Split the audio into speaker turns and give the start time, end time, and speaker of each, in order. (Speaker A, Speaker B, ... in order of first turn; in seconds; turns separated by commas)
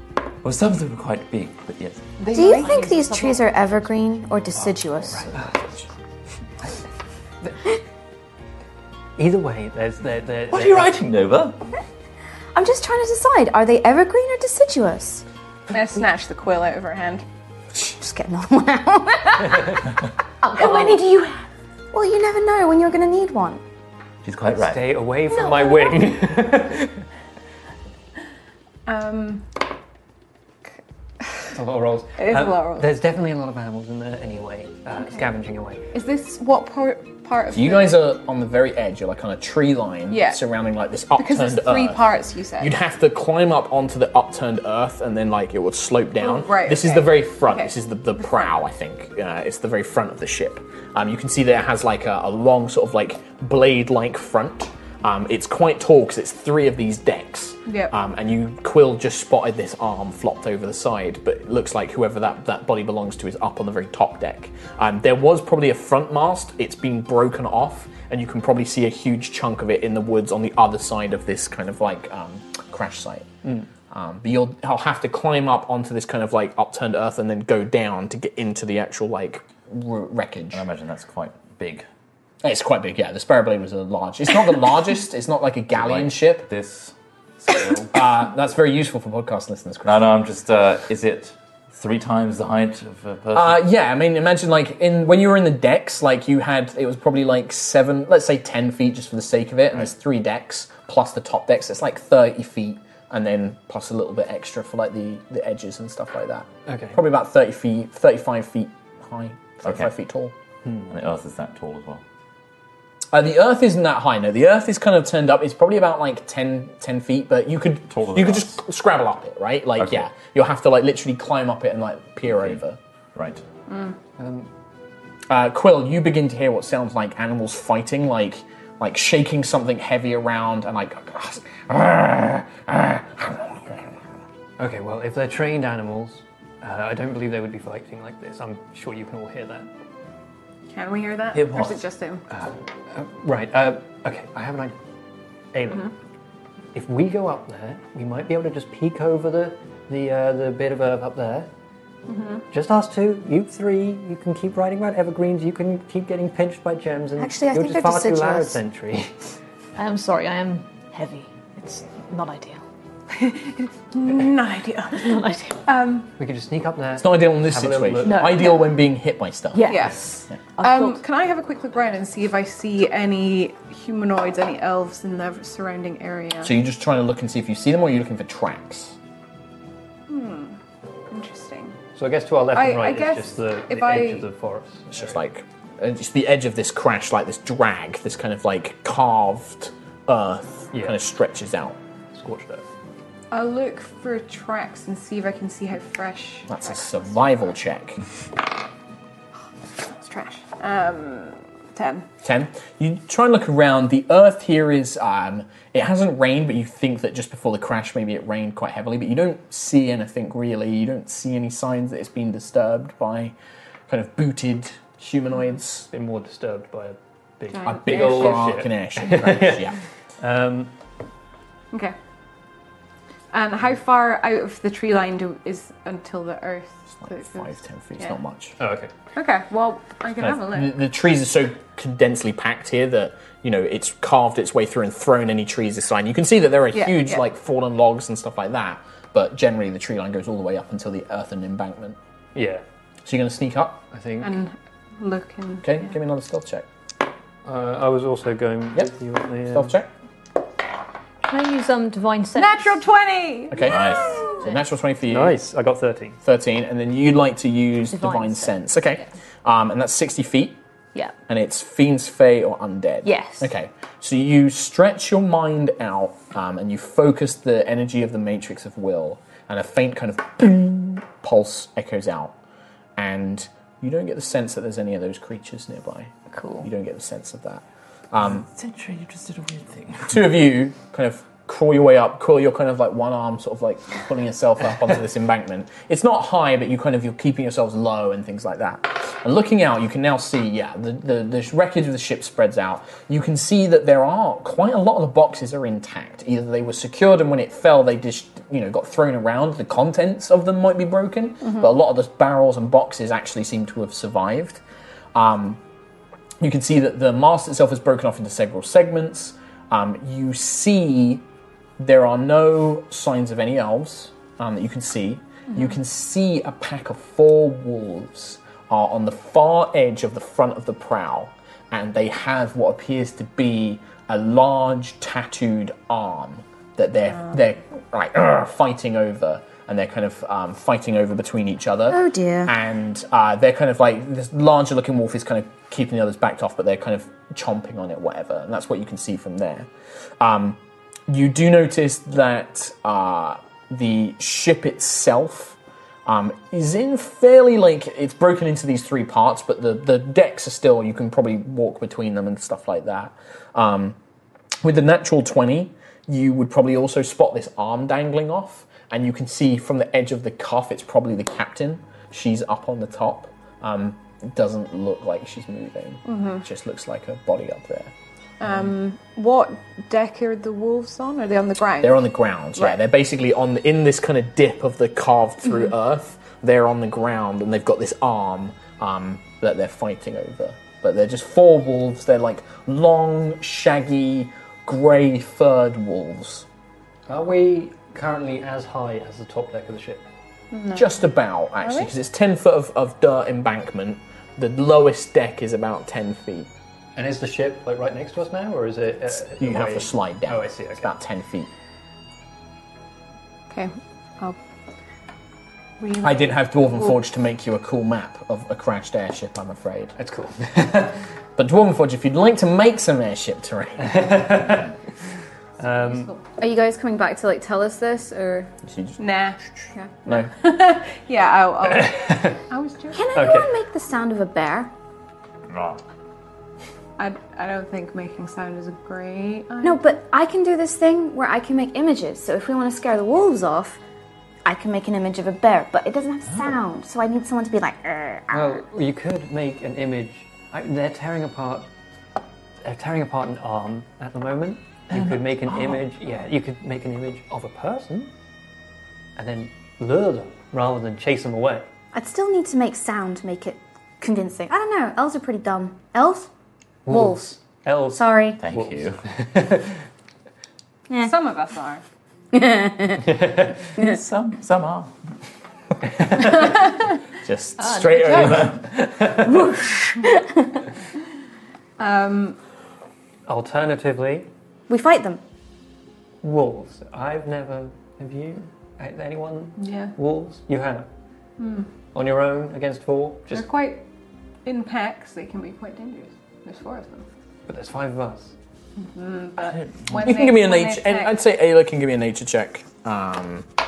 Speaker A: 0.4-2.2, Speaker B: 2.2-3.2, Speaker C: 2.3-5.3, Speaker D: 2.4-3.4, Speaker E: 5.3-5.5, Speaker F: 5.4-5.9, Speaker E: 9.2-11.0, Speaker A: 10.5-11.6, Speaker C: 12.6-15.2, Speaker B: 15.7-17.3, Speaker C: 17.7-19.9, Speaker C: 20.4-21.4, Speaker B: 20.6-21.1, Speaker C: 21.9-23.6, Speaker A: 24.2-24.8, Speaker E: 24.5-27.0, Speaker C: 25.4-25.8, Speaker B: 28.9-29.5, Speaker B: 31.2-31.5, Speaker E: 31.5-35.9, Speaker B: 32.2-33.0, Speaker B: 35.0-35.3, Speaker B: 35.9-38.0, Speaker F: 37.5-42.0, Speaker B: 40.1-40.4, Speaker B: 41.1-42.8, Speaker F: 42.6-73.3, Speaker B: 46.2-48.5, Speaker B: 57.7-58.0, Speaker F: 73.9-80.6, Speaker A: 80.5-81.9, Speaker F: 82.4-86.5, Speaker A: 85.7-87.9, Speaker F: 87.9-90.1, Speaker A: 89.9-93.6, Speaker F: 93.3-110.3, Speaker E: 106.7-107.0, Speaker A: 109.7-109.9, Speaker E: 110.7-110.9, Speaker A: 110.9-112.0, Speaker F: 113.1-122.8, Speaker A: 117.9-118.5, Speaker A: 119.8-120.1, Speaker A: 122.3-122.6, Speaker A: 123.2-123.4, Speaker B: 123.7-124.0, Speaker E: 124.2-124.5, Speaker F: 125.3-133.9, Speaker E: 134.6-139.7, Speaker B: 140.7-142.2, Speaker A: 141.3-141.8, Speaker E: 142.3-144.8, Speaker E: 145.5-145.9, Speaker E: 146.8-151.5, Speaker B: 152.1-152.4, Speaker E: 152.5-159.2, Speaker C: 157.2-158.6, Speaker D: 159.8-162.6, Speaker B: 163.1-166.1, Speaker D: 165.0-165.6, Speaker E: 166.2-168.3, Speaker F: 167.0-169.7, Speaker D: 168.1-168.7, Speaker D: 169.5-171.0, Speaker B: 169.6-176.5, Speaker F: 176.4-179.0, Speaker B: 180.1-180.6, Speaker B: 181.1-181.8, Speaker E: 182.0-185.2, Speaker B: 182.5-184.3, Speaker F: 184.9-191.8, Speaker E: 190.7-191.0, Speaker E: 192.1-192.7, Speaker B: 193.3-197.4, Speaker F: 196.5-198.0, Speaker B: 199.8-202.1, Speaker F: 202.2-213.3, Speaker F: 213.9-215.9, Speaker E: 215.9-220.7, Speaker B: 217.5-218.5, Speaker F: 217.7-219.8, Speaker B: 223.3-228.2, Speaker F: 227.0-228.6, Speaker E: 228.6-228.9, Speaker B: 229.1-230.8, Speaker F: 230.2-242.0, Speaker B: 236.7-237.2, Speaker E: 242.3-242.6, Speaker F: 243.1-243.8, Speaker E: 243.9-244.4, Speaker B: 244.2-245.9, Speaker F: 245.6-246.7, Speaker E: 247.4-249.8, Speaker F: 249.5-249.9, Speaker D: 251.2-252.8, Speaker B: 252.3-254.3, Speaker F: 253.5-255.4, Speaker A: 253.7-254.2, Speaker E: 255.1-256.2, Speaker F: 256.2-260.6, Speaker D: 257.9-258.5, Speaker F: 261.3-272.4, Speaker D: 263.1-263.5, Speaker F: 273.0-278.4, Speaker C: 276.3-276.7, Speaker A: 278.3-280.2, Speaker F: 280.1-304.6, Speaker F: 305.1-305.6, Speaker F: 306.4-311.2, Speaker F: 311.8-339.7, Speaker C: 331.9-332.5, Speaker F: 340.2-354.0, Speaker F: 354.6-367.9, Speaker B: 366.1-366.4, Speaker B: 368.4-372.8, Speaker F: 371.8-386.5, Speaker E: 387.1-390.1, Speaker B: 390.5-391.0, Speaker F: 390.7-396.5, Speaker B: 391.6-391.9, Speaker E: 397.0-400.9, Speaker F: 399.4-401.5, Speaker B: 403.5-404.4, Speaker B: 405.8-407.0, Speaker F: 406.0-409.9, Speaker E: 410.0-411.0, Speaker F: 411.4-414.2, Speaker E: 413.8-414.7, Speaker E: 415.6-416.1, Speaker B: 415.6-416.2, Speaker C: 416.4-418.5, Speaker F: 418.6-419.0, Speaker B: 419.0-423.1, Speaker F: 420.1-420.3, Speaker E: 421.7-422.4, Speaker C: 422.9-424.7, Speaker E: 423.1-423.5, Speaker A: 425.5-425.8, Speaker B: 427.0-429.9, Speaker C: 429.6-433.8, Speaker C: 434.4-438.6, Speaker E: 438.3-441.7, Speaker E: 442.6-448.1, Speaker A: 445.0-445.8, Speaker E: 449.2-451.7, Speaker C: 451.9-456.3, Speaker E: 456.9-459.8, Speaker C: 456.9-457.3, Speaker C: 457.9-458.4, Speaker A: 458.4-459.0, Speaker B: 461.0-461.8, Speaker C: 462.3-463.1, Speaker E: 463.0-463.5, Speaker A: 463.8-464.9, Speaker E: 465.9-466.3, Speaker F: 467.2-468.7, Speaker D: 467.6-468.4, Speaker E: 469.0-469.3, Speaker C: 469.2-470.4, Speaker B: 471.8-472.4, Speaker E: 473.3-474.3, Speaker C: 474.7-475.2, Speaker E: 476.2-480.9, Speaker B: 479.6-479.9, Speaker B: 481.4-481.7, Speaker E: 481.9-483.5, Speaker B: 483.3-483.9, Speaker B: 484.4-487.1, Speaker E: 487.5-488.3, Speaker B: 488.8-491.2, Speaker A: 489.4-490.0, Speaker F: 490.0-493.5